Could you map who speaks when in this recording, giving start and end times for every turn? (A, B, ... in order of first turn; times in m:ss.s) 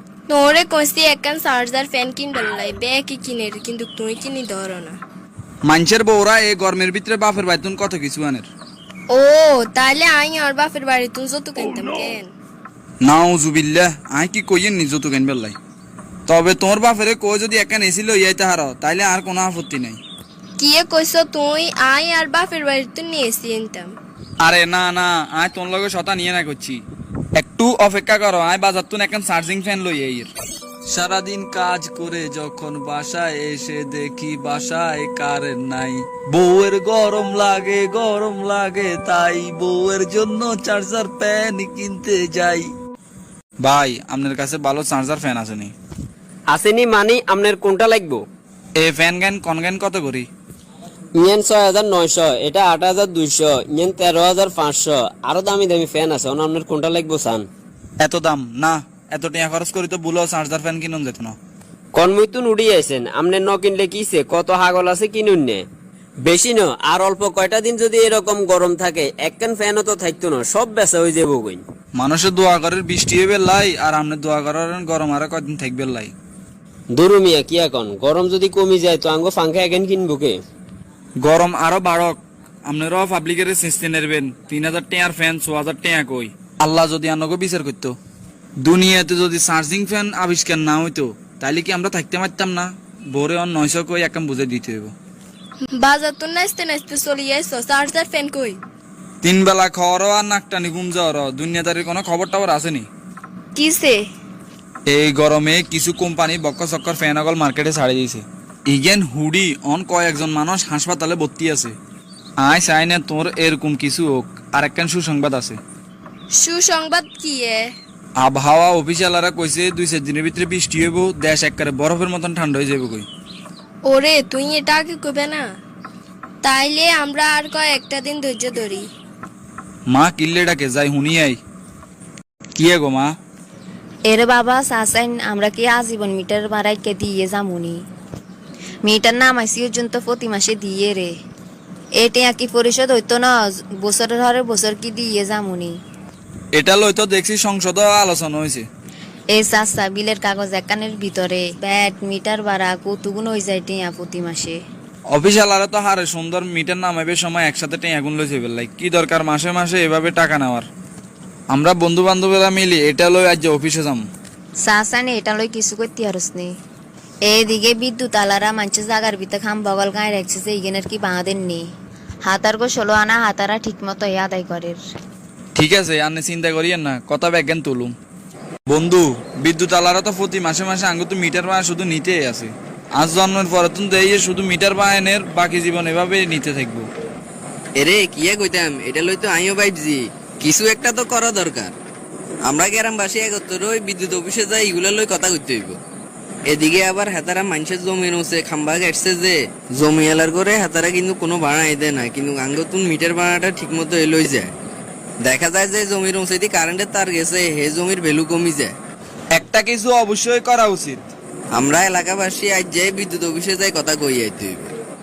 0:00.3-0:05.0 A
0:05.6-0:08.5 B
0:09.1-0:12.3 A
0:11.6-0:12.1 B
0:13.0-0:15.6 B
0:16.3-0:20.0 B
0:20.6-0:23.9 A
0:24.4-0:26.8 B
0:27.4-0:30.3 B
0:30.9-0:42.7 B
0:43.6-0:45.7 B
0:46.5-0:48.2 C
0:48.8-0:50.3 B
0:51.2-0:57.5 C
0:58.0-1:01.4 B
1:02.0-1:05.6 C
1:06.2-1:11.6 C
1:12.0-1:16.1 B
1:16.9-1:20.4 C
1:21.2-1:28.0 B
1:28.6-1:34.9 B
1:35.8-1:38.6 A
1:39.2-1:42.9 B
1:43.6-1:44.0 A
1:44.9-1:51.7 B
1:52.4-1:55.6 B
1:56.4-1:57.6 A
1:58.2-2:03.1 B
2:03.9-2:05.4 A
2:06.4-2:08.9 A
2:09.9-2:11.4 B
2:12.6-2:13.1 B
2:14.1-2:17.8 D
2:18.8-2:21.1 D
2:22.0-2:25.7 D
2:26.5-2:28.6 B
2:29.3-2:34.6 D
2:35.1-2:40.7 B
2:41.5-2:44.1 B
2:44.6-2:46.5 D
2:47.3-2:51.6 D
2:52.3-2:54.8 D
2:55.5-2:57.9 B
2:58.7-3:06.9 B
3:07.8-3:11.7 E
3:12.4-3:15.8 E
3:16.5-3:24.5 E
3:25.2-3:28.7 E
3:29.3-3:31.1 B
3:31.5-3:34.7 E